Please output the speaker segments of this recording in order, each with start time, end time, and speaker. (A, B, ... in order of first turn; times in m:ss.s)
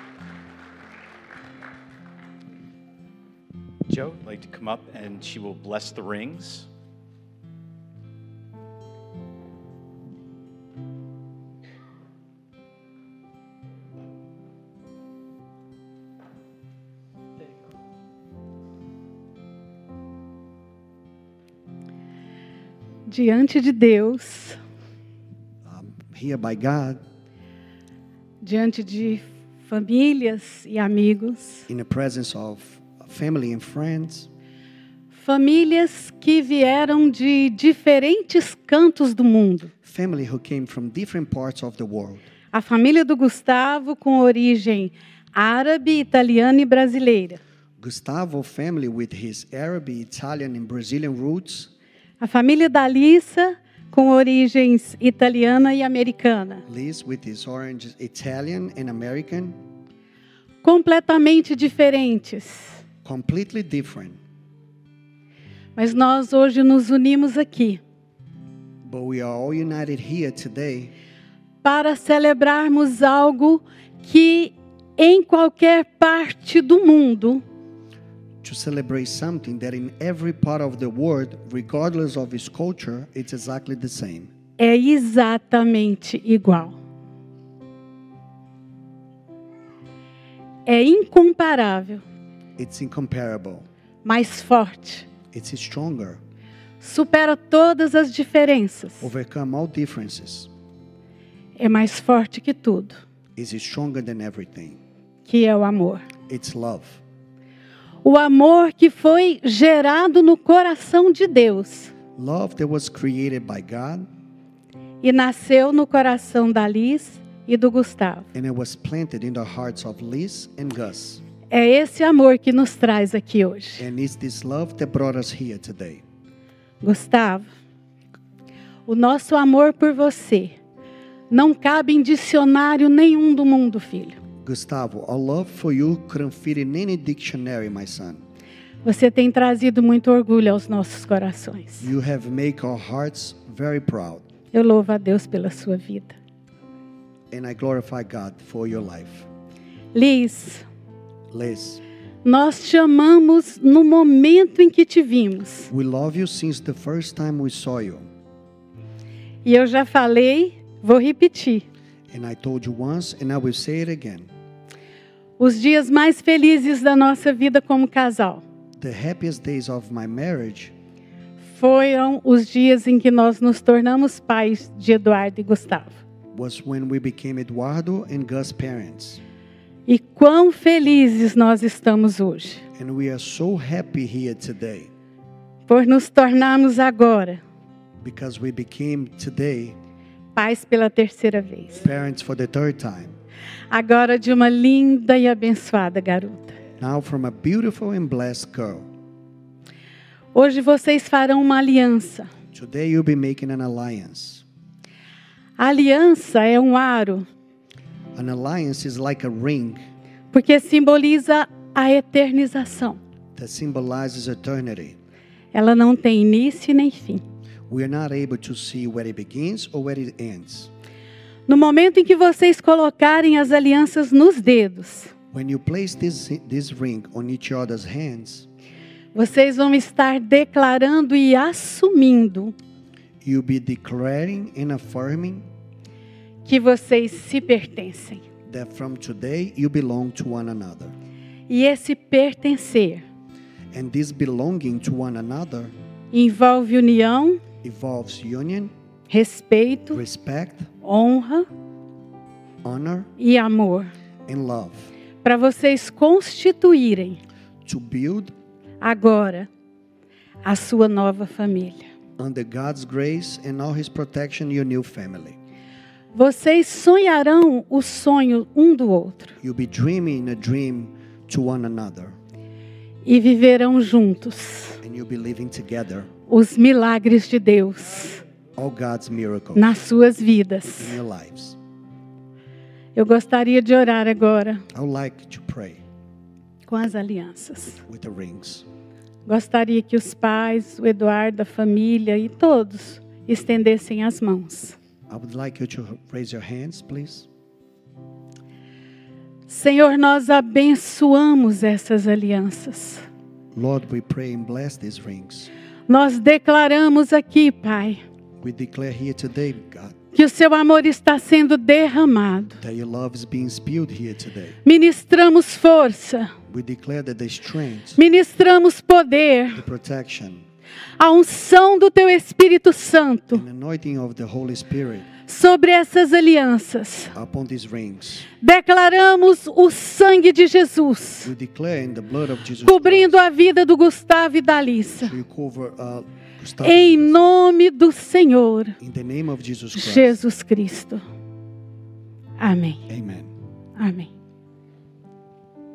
0:03.9-0:06.7 A
0:23.1-0:24.6 B
0:25.6-0:27.0 C
0:28.4-0:31.7 B
0:31.7-0:34.3 C
0:35.1-0:39.7 B
0:39.8-0:42.3 C
0:42.5-0:47.4 B
0:47.8-0:51.7 C
0:52.2-0:56.6 B
0:56.7-0:59.6 C
1:00.6-1:02.8 B
1:03.0-1:04.2 C
1:05.8-1:07.8 B
1:08.8-1:10.9 C
1:11.6-1:17.4 B
1:18.4-1:24.3 C
1:24.6-1:26.8 B
1:30.6-1:32.0 B
1:32.6-1:33.7 C
1:34.0-1:35.1 B
1:35.3-1:36.2 C
1:36.8-1:39.1 B
1:39.0-1:40.5 C
1:41.6-1:43.0 B
1:43.4-1:44.8 C
1:45.2-1:46.1 B
1:46.3-1:47.0 C
1:48.0-1:51.9 B
1:52.1-1:54.1 C
1:55.0-1:58.3 B
1:58.3-2:01.2 C
2:01.5-2:03.8 B
2:03.8-2:06.0 C
2:06.8-2:07.5 B
2:08.9-2:10.6 B
2:11.3-2:14.2 B
2:14.4-2:18.2 C
2:18.8-2:21.9 B
2:21.8-2:24.3 C
2:24.5-2:26.1 B
2:27.3-2:29.3 C
2:29.9-2:30.6 B
2:31.3-2:31.8 C
2:32.2-2:35.7 B
2:35.7-2:38.1 C
2:39.4-2:41.6 B
2:42.1-2:44.3 C
2:45.4-2:48.4 B
2:48.8-2:50.7 C
2:51.4-2:56.0 B
2:56.3-2:59.2 C
2:59.9-3:02.6 B
3:02.7-3:04.9 C
3:05.7-3:07.4 B
3:08.0-3:09.8 C
3:10.3-3:11.8 B
3:11.7-3:13.2 C
3:13.7-3:16.6 B
3:16.8-3:18.9 C
3:20.3-3:22.3 B
3:22.5-3:24.4 C
3:25.6-3:27.3 B
3:28.1-3:29.8 C
3:30.3-3:33.0 B
3:33.3-3:35.0 C
3:35.5-3:37.2 B
3:37.7-3:40.7 C
3:41.5-3:45.1 B
3:45.3-3:48.5 C
3:49.1-3:52.5 B
3:53.2-3:55.5 C
3:56.4-3:58.2 B
3:58.4-4:00.9 C
4:01.5-4:03.0 B
4:03.7-4:05.7 C
4:06.1-4:07.4 B
4:07.6-4:08.7 C
4:09.1-4:10.0 B
4:09.9-4:10.7 C
4:10.8-4:11.5 B
4:12.6-4:13.1 C
4:13.2-4:13.9 B
4:14.3-4:14.9 C
4:15.2-4:17.2 B
4:17.6-4:18.3 C
4:18.8-4:19.5 B
4:20.4-4:21.8 B
4:22.2-4:25.4 C
4:26.1-4:29.4 B
4:29.4-4:32.2 C
4:33.0-4:34.8 B
4:34.8-4:36.1 C
4:36.3-4:38.2 B
4:38.5-4:39.8 C
4:39.6-4:41.0 B
4:40.8-4:41.6 C
4:42.9-4:44.6 B
4:44.7-4:45.8 C
4:46.7-4:47.8 B
4:47.8-4:48.7 C
4:49.2-4:54.8 B
4:55.1-4:57.3 C
4:59.5-5:03.0 B
5:03.5-5:05.5 C
5:05.9-5:08.0 B
5:08.4-5:10.0 C
5:10.1-5:12.6 B
5:12.6-5:14.6 C
5:14.6-5:16.3 B
5:16.5-5:18.0 C
5:18.0-5:19.6 B
5:19.5-5:20.5 C
5:21.0-5:23.4 B
5:23.3-5:25.1 C
5:25.2-5:27.1 B
5:27.1-5:28.3 C
5:28.4-5:31.3 B
5:31.2-5:33.2 C
5:32.6-5:35.1 B
5:35.0-5:37.2 C
5:36.6-5:38.8 B
5:38.8-5:40.2 C
5:39.8-5:41.0 B
5:42.4-5:42.8 B
5:42.9-5:43.3 C
5:43.8-5:44.1 B